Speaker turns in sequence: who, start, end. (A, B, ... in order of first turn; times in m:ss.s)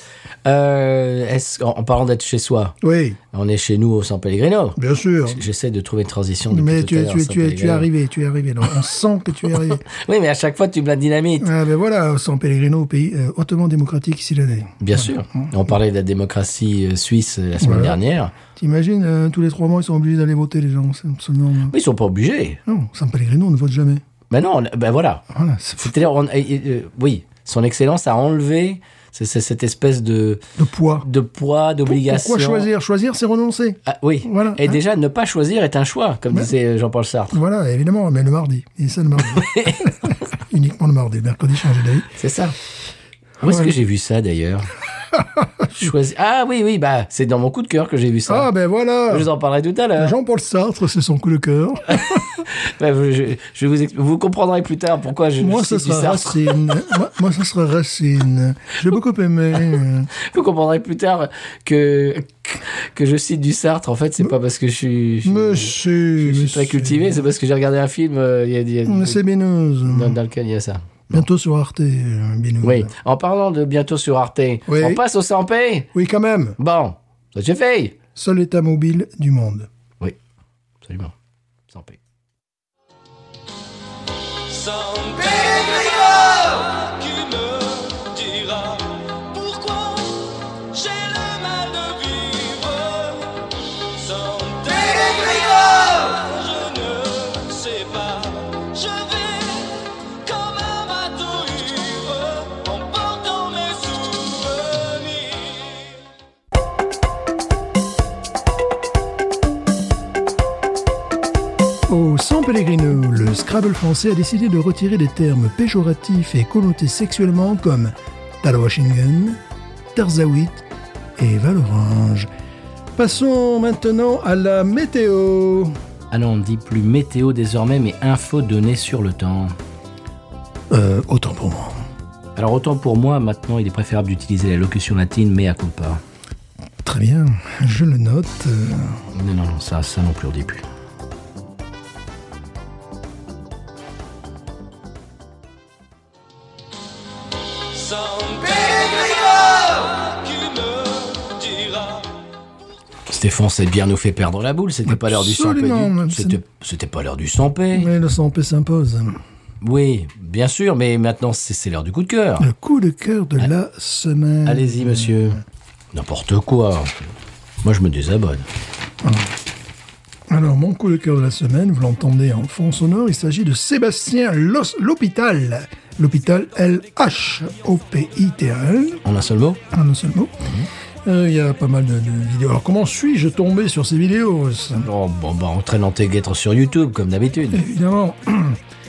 0:00.4-0:02.8 A
0:02.8-0:03.2 B
0:03.3-0:07.9 A
0:04.8-0:05.4 B
0:06.5-0:09.8 B
0:09.5-0:11.5 A
0:11.4-0:15.5 B
0:14.8-0:18.4 A
0:17.6-0:18.0 B
0:18.6-0:21.7 B
0:21.7-0:22.6 A
0:22.7-0:24.0 B
0:24.3-0:25.2 A
0:25.3-0:26.0 B
0:25.8-0:30.4 A
0:30.6-0:31.1 B
0:31.0-0:32.7 A
0:31.9-0:34.8 B
0:33.9-0:37.4 A
0:37.3-0:42.1 B
0:39.3-0:39.9 A
0:42.2-0:42.6 A
0:43.4-0:44.7 A
0:43.4-0:43.7 B
0:45.1-0:45.9 B
0:45.8-0:48.5 A
0:48.3-0:49.3 B
0:49.1-0:50.2 A
0:50.0-0:52.4 B
0:51.9-0:56.8 A
0:55.4-1:00.1 B
1:00.1-1:09.2 A
1:05.2-1:07.3 B
1:08.9-1:10.2 B
1:09.9-1:11.2 A
1:11.1-1:12.9 B
1:12.6-1:15.9 A
1:14.7-1:15.0 B
1:15.9-1:16.6 B
1:16.6-1:18.0 A
1:18.2-1:19.7 B
1:20.8-1:21.2 A
1:21.7-1:22.0 A
1:24.8-1:26.8 C
1:25.7-1:27.3 A
1:27.3-1:28.8 C
1:28.0-1:28.8 A
1:29.4-1:30.0 C
1:29.5-1:29.9 A
1:30.8-1:33.0 C
1:31.0-1:32.8 A
1:34.0-1:39.6 C
1:34.3-1:38.2 A
1:40.4-1:44.8 C
1:41.1-1:41.9 A
1:42.6-1:43.8 A
1:51.9-1:59.4 B
1:59.9-2:00.6 B
2:01.2-2:02.3 B
2:03.0-2:05.8 B
2:06.1-2:09.6 A
2:10.7-2:11.8 B
2:12.4-2:16.0 A
2:16.8-2:19.0 B
2:19.1-2:20.6 A
2:27.9-2:31.9 C
2:33.1-2:37.9 A
2:34.9-2:36.4 B
2:37.7-2:39.2 B
2:39.6-2:42.5 A
2:42.4-2:45.4 B
2:44.4-2:45.4 A
2:45.9-2:47.0 A
2:47.6-2:48.5 A
2:49.0-2:49.3 B
2:50.3-2:59.0 B
2:59.0-2:59.6 A
2:59.7-3:00.5 B
3:00.4-3:00.7 A
3:01.0-3:04.9 B
3:04.8-3:07.6 A
3:07.5-3:08.6 B